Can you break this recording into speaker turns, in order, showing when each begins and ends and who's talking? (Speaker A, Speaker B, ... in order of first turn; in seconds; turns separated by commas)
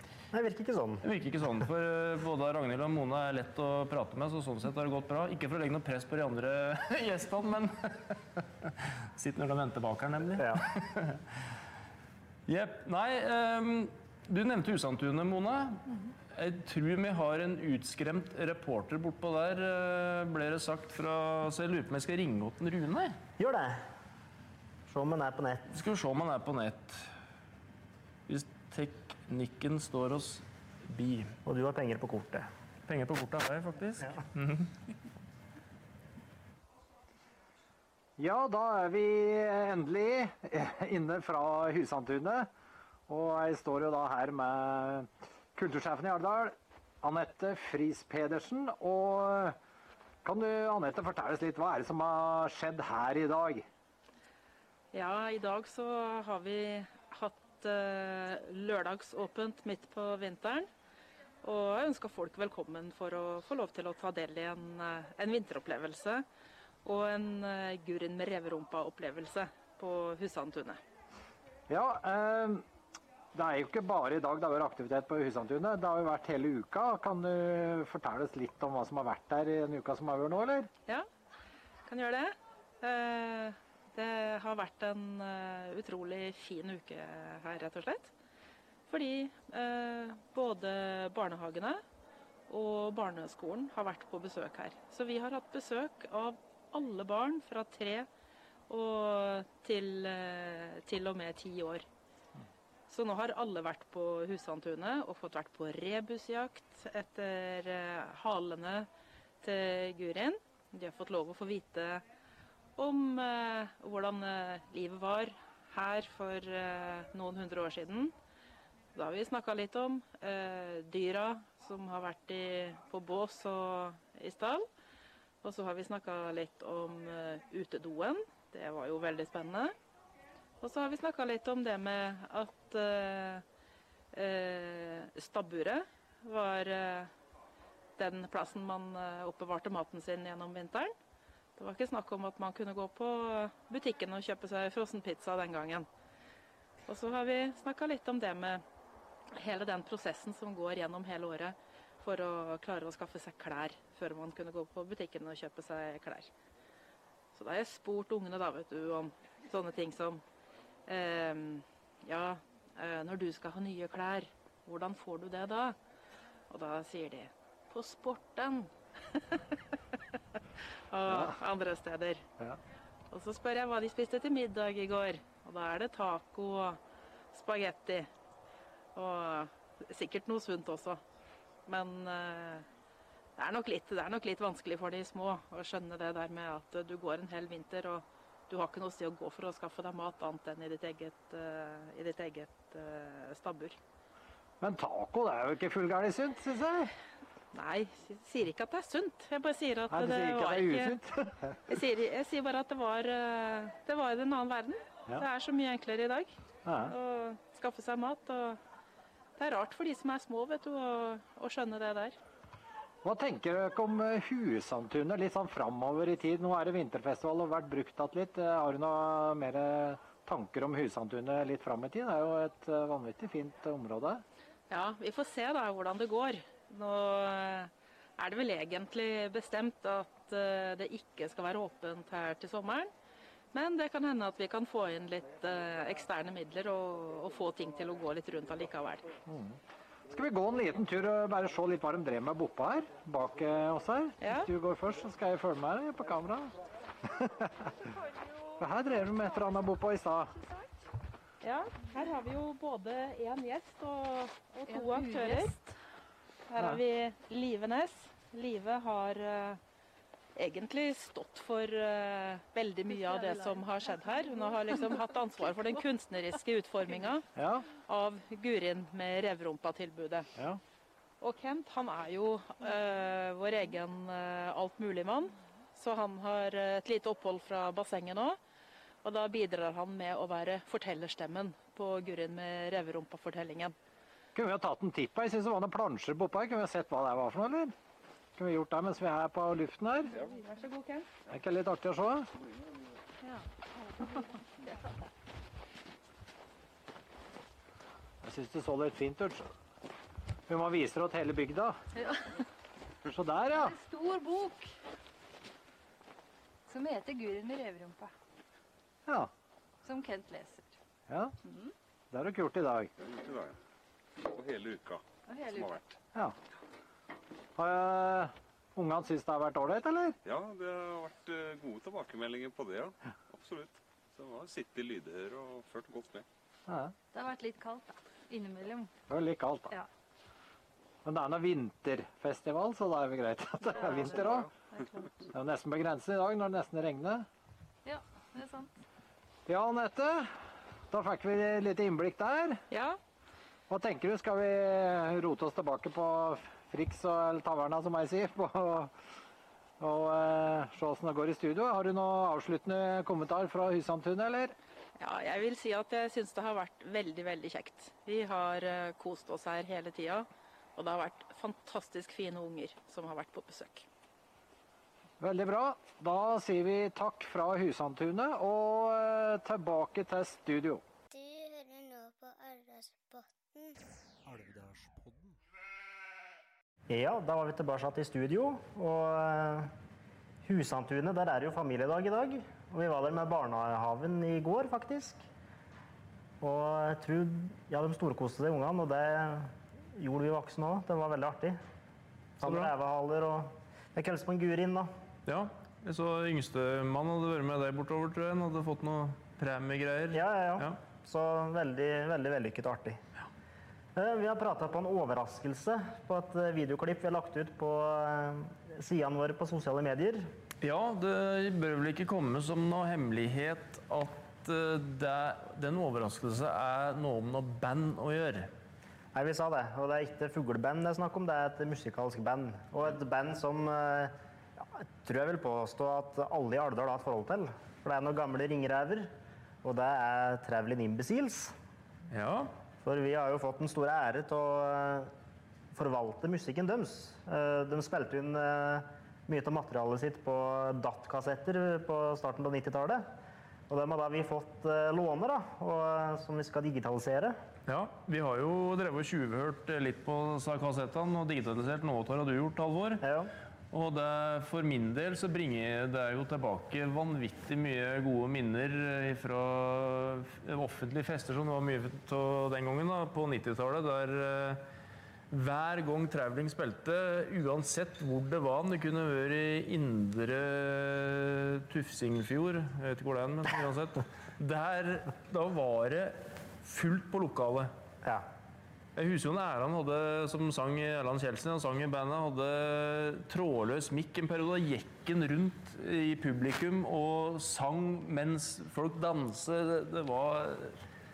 Speaker A: 0.3-1.0, Speaker B: 1.0-11.2, Speaker A: 10.4-10.6, Speaker B: 12.5-23.2, Speaker A: 23.4-23.8, Speaker A: 24.9-25.7, Speaker B: 25.7-27.1, Speaker B: 28.3-31.4, Speaker A: 31.4-32.5, Speaker B: 32.9-34.7, Speaker C: 38.2-42.5, Speaker C: 43.1-49.6, Speaker C: 50.2-53.7, Speaker D: 54.9-60.7, Speaker D: 61.4-66.2, Speaker D: 66.8-70.8, Speaker C: 71.7-72.7, Speaker C: 73.3-80.7, Speaker D: 81.9-88.1, Speaker D: 88.9-91.8, Speaker D: 92.5-98.1, Speaker D: 98.7-101.8, Speaker D: 102.9-108.9, Speaker D: 109.4-112.0, Speaker D: 112.8-118.1, Speaker D: 119.0-124.7, Speaker D: 125.4-129.7, Speaker D: 130.6-133.4, Speaker D: 134.1-137.1, Speaker D: 138.0-140.9, Speaker D: 141.6-145.9, Speaker D: 146.9-148.6, Speaker D: 149.3-156.3, Speaker D: 157.3-160.2, Speaker D: 160.9-165.8, Speaker D: 166.5-170.4, Speaker D: 170.9-172.2, Speaker C: 171.1-171.4, Speaker D: 173.1-176.8, Speaker D: 177.3-178.1, Speaker D: 178.9-181.0, Speaker D: 181.7-182.7, Speaker D: 183.4-193.8, Speaker C: 194.6-196.9, Speaker D: 197.5-201.0, Speaker C: 199.9-201.6, Speaker D: 201.7-208.6, Speaker C: 206.7-207.0, Speaker D: 209.4-212.2, Speaker C: 213.0-224.2, Speaker D: 224.7-232.9, Speaker D: 233.5-239.1, Speaker C: 239.3-239.6, Speaker C: 240.1-246.5, Speaker D: 244.2-244.5, Speaker C: 247.1-247.7, Speaker C: 248.6-250.3, Speaker E: 248.9-249.5, Speaker E: 250.4-250.7, Speaker D: 251.4-255.6, Speaker E: 254.7-255.8, Speaker D: 256.5-259.6, Speaker D: 260.4-270.3, Speaker E: 262.9-265.6, Speaker C: 267.4-267.7, Speaker D: 271.2-278.4, Speaker D: 279.0-283.8, Speaker C: 284.4-287.8, Speaker C: 288.4-290.1, Speaker D: 290.1-291.1, Speaker C: 291.3-292.3, Speaker E: 293.8-294.9, Speaker C: 298.2-299.5, Speaker C: 300.5-301.8, Speaker E: 301.9-302.4, Speaker C: 303.0-303.8, Speaker E: 303.5-304.7, Speaker E: 306.7-308.1, Speaker E: 309.8-310.8, Speaker C: 311.1-311.3, Speaker E: 311.4-311.7, Speaker C: 312.1-312.9, Speaker F: 313.0-313.6, Speaker F: 314.2-315.0, Speaker E: 315.3-315.8, Speaker F: 315.5-315.8, Speaker C: 317.6-320.2, Speaker F: 320.2-326.3, Speaker C: 326.7-326.9, Speaker E: 327.1-328.9, Speaker C: 329.1-329.8, Speaker C: 331.1-334.5, Speaker E: 333.6-335.1, Speaker C: 335.3-337.3, Speaker E: 337.9-338.7, Speaker C: 339.5-340.3, Speaker C: 340.9-342.6, Speaker D: 342.7-343.0, Speaker C: 343.7-348.9, Speaker C: 349.8-354.6, Speaker D: 355.0-363.9, Speaker C: 365.2-370.8, Speaker G: 371.1-373.8, Speaker C: 374.3-375.4, Speaker A: 376.9-379.7, Speaker A: 380.4-385.2, Speaker A: 386.4-391.6, Speaker A: 392.4-394.9, Speaker B: 392.4-392.7, Speaker B: 395.3-400.8, Speaker A: 400.1-403.0, Speaker A: 404.0-410.3, Speaker B: 410.6-418.5, Speaker A: 419.1-429.1, Speaker A: 429.6-431.5, Speaker B: 432.1-432.5, Speaker A: 432.8-435.1, Speaker A: 435.7-443.0, Speaker A: 443.7-447.4, Speaker B: 447.7-453.0, Speaker A: 453.0-453.3, Speaker B: 453.7-464.6, Speaker B: 465.3-477.7, Speaker B: 479.0-490.8